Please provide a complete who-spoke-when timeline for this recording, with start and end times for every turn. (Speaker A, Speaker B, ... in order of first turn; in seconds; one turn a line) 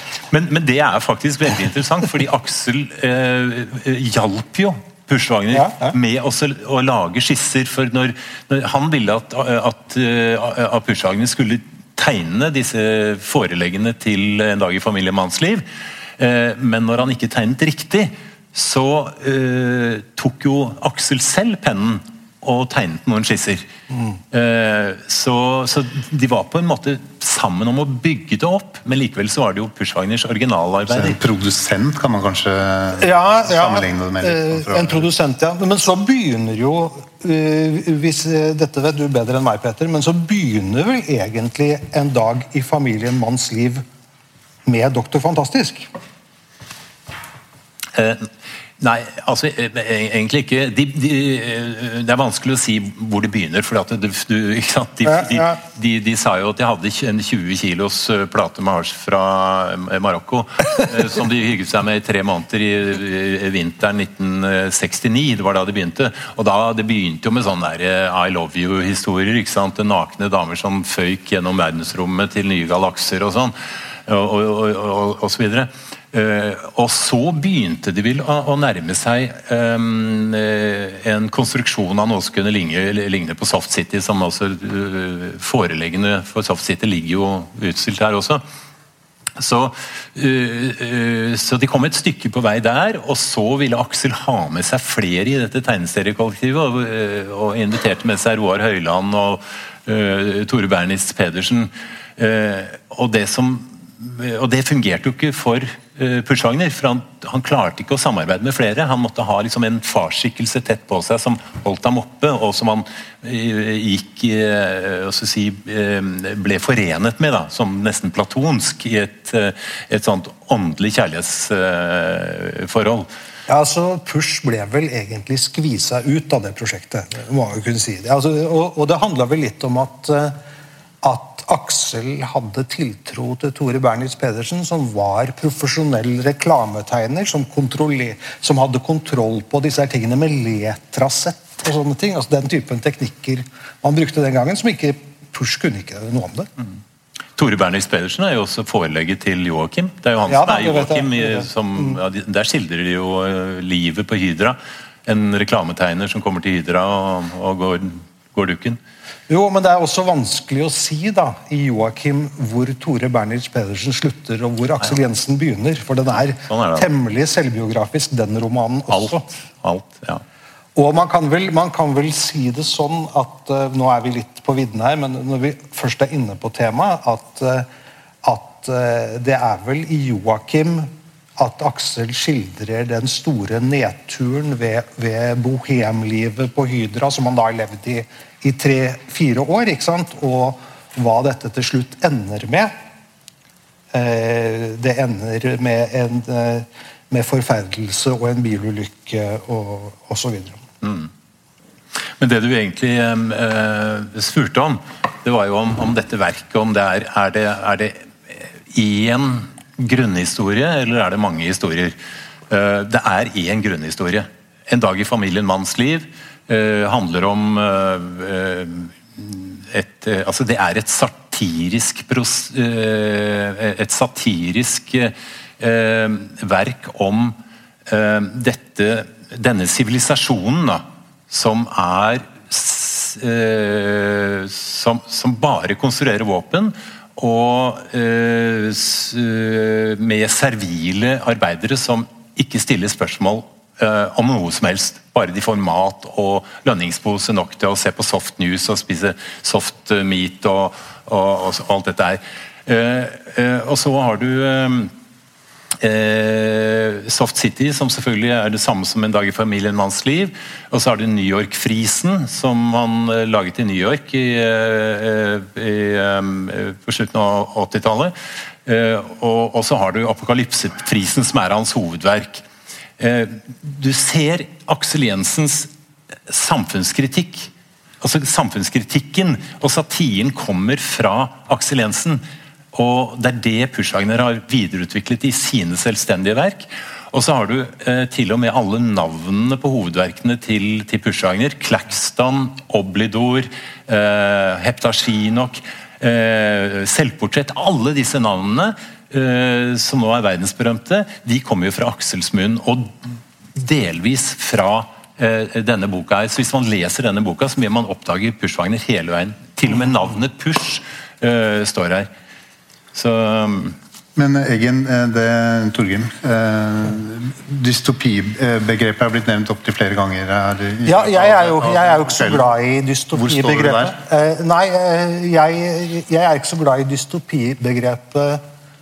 Speaker A: 0.3-15.6
Speaker B: 5.5-6.0
Speaker A: 16.2-23.7
Speaker A: 24.3-31.2
Speaker C: 30.9-35.1
Speaker B: 33.0-43.8
Speaker B: 44.7-45.9
Speaker A: 47.9-48.3
Speaker A: 48.8-88.4
Speaker A: 89.4-123.1
Speaker B: 123.5-130.4
Speaker B: 131.0-146.5
Speaker A: 147.4-158.8
Speaker B: 150.3-152.0
Speaker B: 159.3-169.3
Speaker A: 166.4-166.9
Speaker A: 168.9-170.2
Speaker B: 170.8-177.7
Speaker B: 178.2-192.7
Speaker B: 193.9-200.6
Speaker A: 200.8-201.1
Speaker A: 202.2-212.0
Speaker A: 212.5-254.9
Speaker A: 255.8-268.1
Speaker A: 268.7-272.4
Speaker A: 273.0-275.7
Speaker A: 276.3-277.5
Speaker A: 278.0-282.2
Speaker A: 282.7-302.9
Speaker A: 303.6-312.1
Speaker A: 312.9-313.8
Speaker C: 314.2-322.5
Speaker B: 320.9-328.4
Speaker C: 323.1-324.0